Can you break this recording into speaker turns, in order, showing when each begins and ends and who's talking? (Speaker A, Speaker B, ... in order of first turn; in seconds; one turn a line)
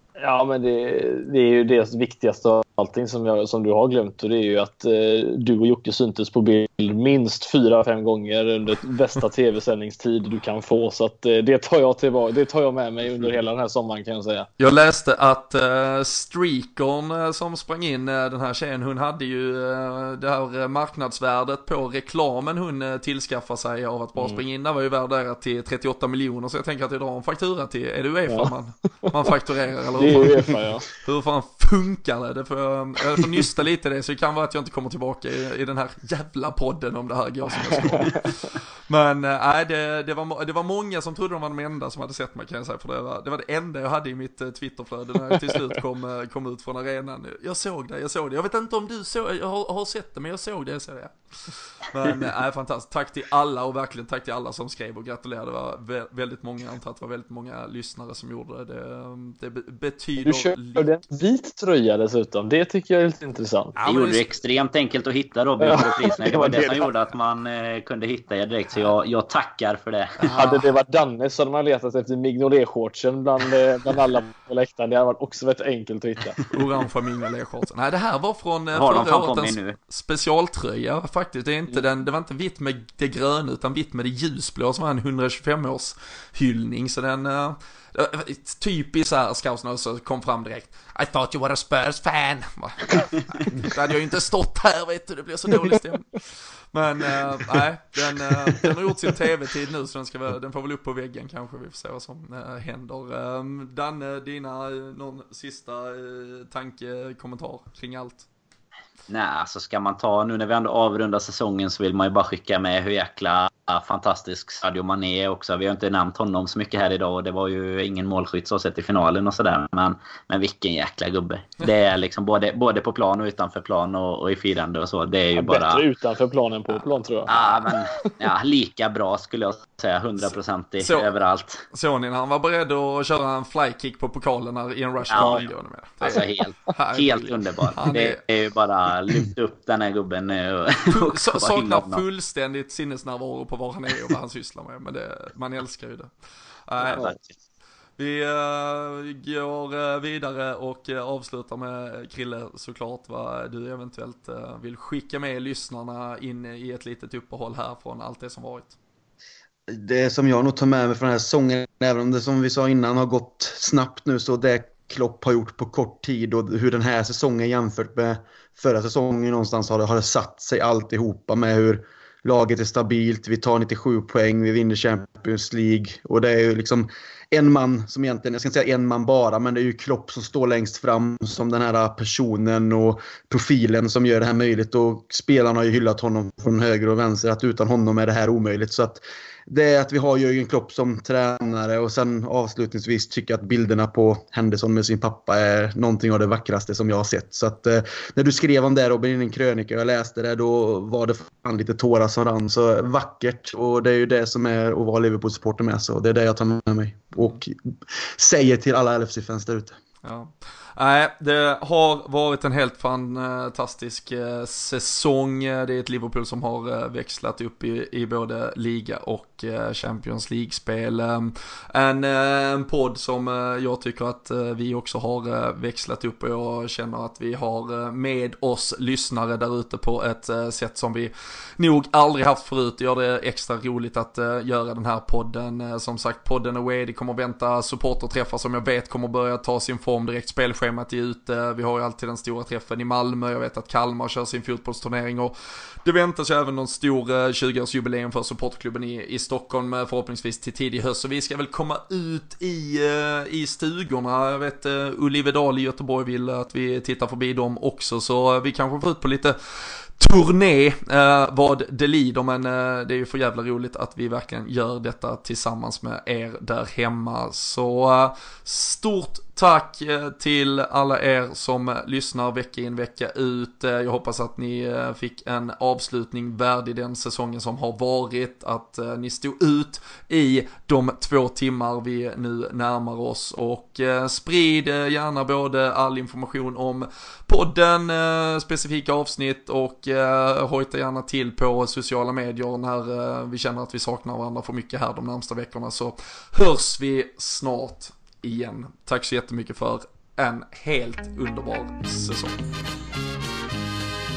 Speaker A: 0.2-14.5
Speaker B: 14.6-61.0
Speaker A: 29.9-30.9
Speaker A: 37.8-38.2
Speaker A: 60.2-63.8
Speaker B: 63.8-64.3
Speaker C: 63.9-70.5
Speaker A: 65.6-66.9
Speaker B: 70.2-70.6
Speaker A: 70.3-76.4
Speaker B: 76.5-108.3
Speaker C: 78.7-79.8
Speaker C: 109.1-125.8
Speaker A: 125.3-128.1
Speaker C: 127.3-131.6
Speaker B: 130.8-131.1
Speaker B: 131.7-138.2
Speaker C: 135.1-135.5
Speaker C: 136.0-142.0
Speaker B: 140.9-146.1
Speaker B: 146.7-147.1
Speaker A: 146.9-147.2
Speaker C: 146.9-147.2
Speaker B: 148.0-158.8
Speaker D: 159.7-209.8
Speaker B: 210.0-302.4